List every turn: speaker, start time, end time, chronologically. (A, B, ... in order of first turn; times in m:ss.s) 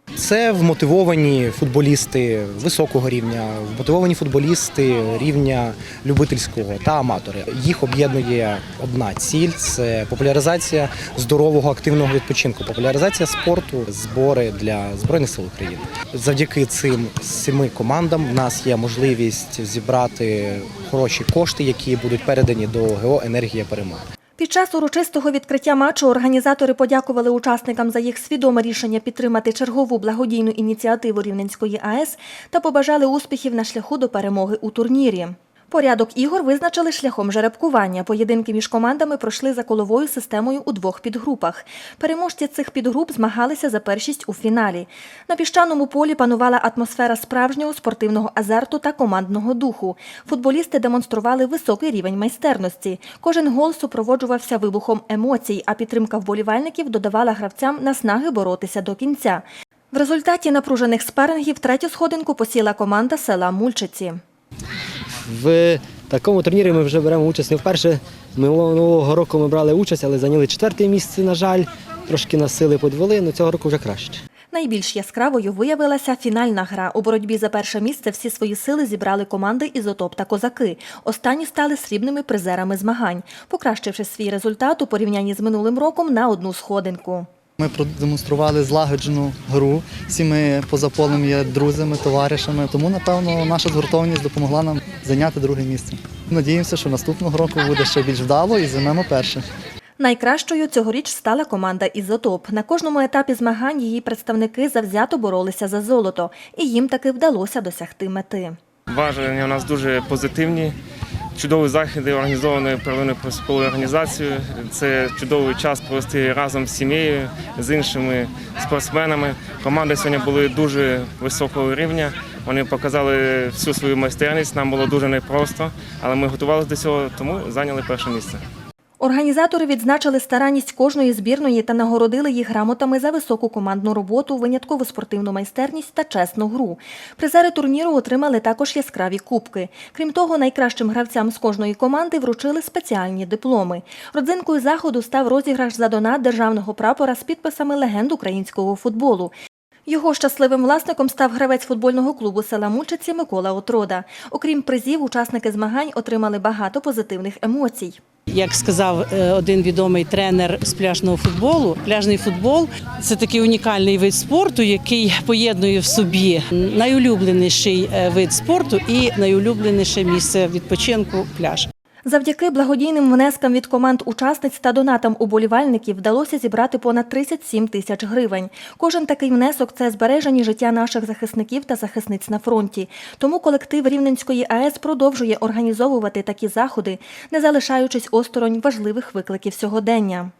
0:00.1-0:24.0 A
0:24.4-1:04.2 B
1:05.3-1:14.2 C
1:14.5-1:27.3 B
1:27.6-1:39.4 D
1:40.0-1:48.6 B
1:48.9-1:50.7 E
1:51.4-2:08.4 E
2:09.0-2:29.3 B
2:29.9-2:38.0 B
2:38.3-2:51.7 F
2:52.0-3:10.3 B